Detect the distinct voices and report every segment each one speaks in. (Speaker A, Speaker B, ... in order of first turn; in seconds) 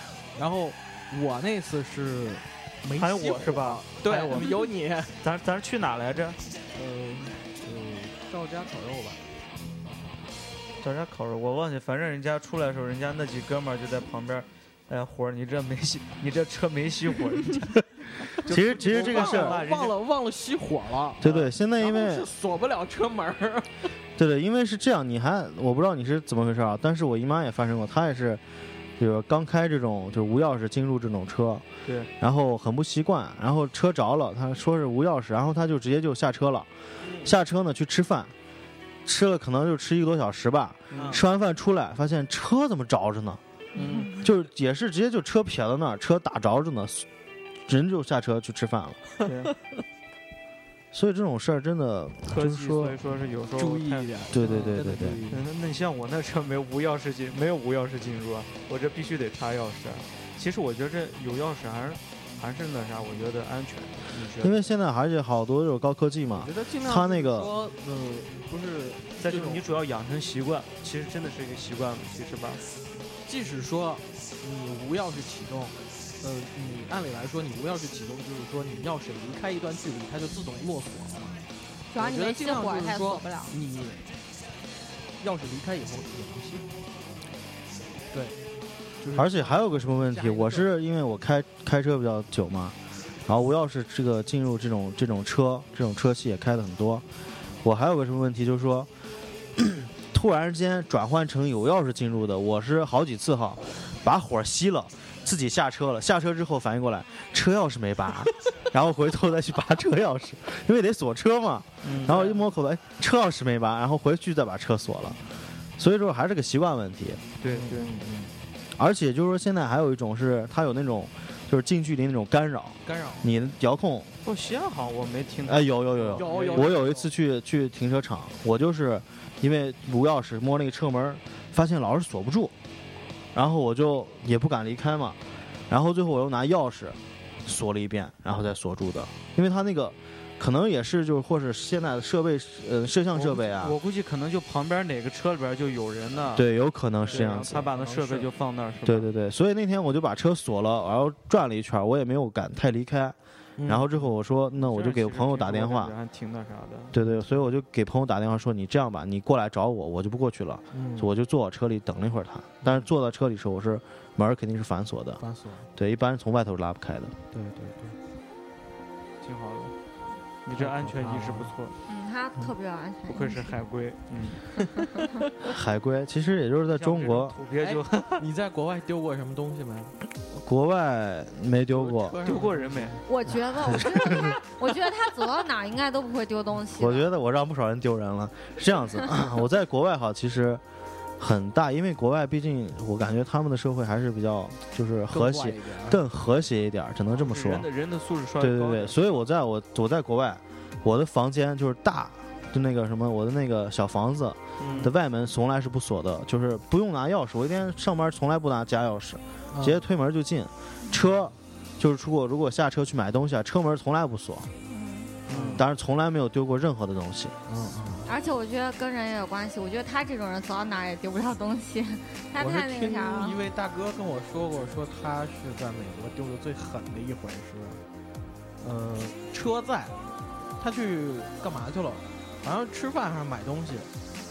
Speaker A: 0.3-5.2, 6.7-9.2, 18.7-23.9, 37.0-37.3, 40.9-41.2, 53.5-55.5, 66.3-69.8, 73.2-81.4, 82.0-84.0, 85.2-86.7, 88.1-88.4, 89.0-90.7, 112.1-112.4, 117.4-118.3, 122.8-123.3, 125.9-127.1, 147.0-148.3, 153.6-153.9, 156.9-157.4, 160.7-161.1, 162.6-162.9, 165.2-165.7, 167.3-168.0, 170.6-171.5, 177.6-179.9, 181.7-183.0, 195.1-196.0, 204.6-204.9, 209.5-209.8, 215.3-215.6, 217.5-218.1, 222.3-227.8, 228.6-230.0, 230.6-233.9
Speaker B: 3.0-4.7, 5.2-6.4, 10.8-19.9, 40.9-41.2, 43.8-44.1, 49.2-49.5, 52.2-54.6, 55.3-64.5, 69.2-72.6, 111.8-112.3, 117.4-118.0, 124.2-126.8, 143.1-146.4, 147.1-149.1, 154.6-156.9, 169.2-169.7, 170.4-171.7, 173.1-174.6, 176.7-178.2, 182.2-183.0, 197.1-199.3, 204.6-204.9, 215.3-215.6
Speaker C: 18.4-19.6, 21.2-22.3, 24.2-28.4, 29.0-31.6, 32.2-36.7, 37.2-38.3, 39.0-43.4, 44.2-47.0, 47.6-49.0, 50.9-53.0, 54.3-55.2, 64.4-67.5, 89.1-92.8, 93.3-97.0, 97.6-98.9, 99.5-115.2, 115.8-117.2, 118.8-124.1, 125.5-132.5, 133.3-143.8, 146.3-147.7, 148.8-155.9, 156.9-165.2, 165.7-167.1, 175.4-177.3, 180.3-182.2, 183.6-184.3, 186.7-190.6, 191.2-197.7, 198.4-214.5, 215.5-217.3
Speaker D: 43.7-44.3, 81.9-83.5, 171.9-173.6, 183.1-187.1, 214.7-215.1, 218.1-223.4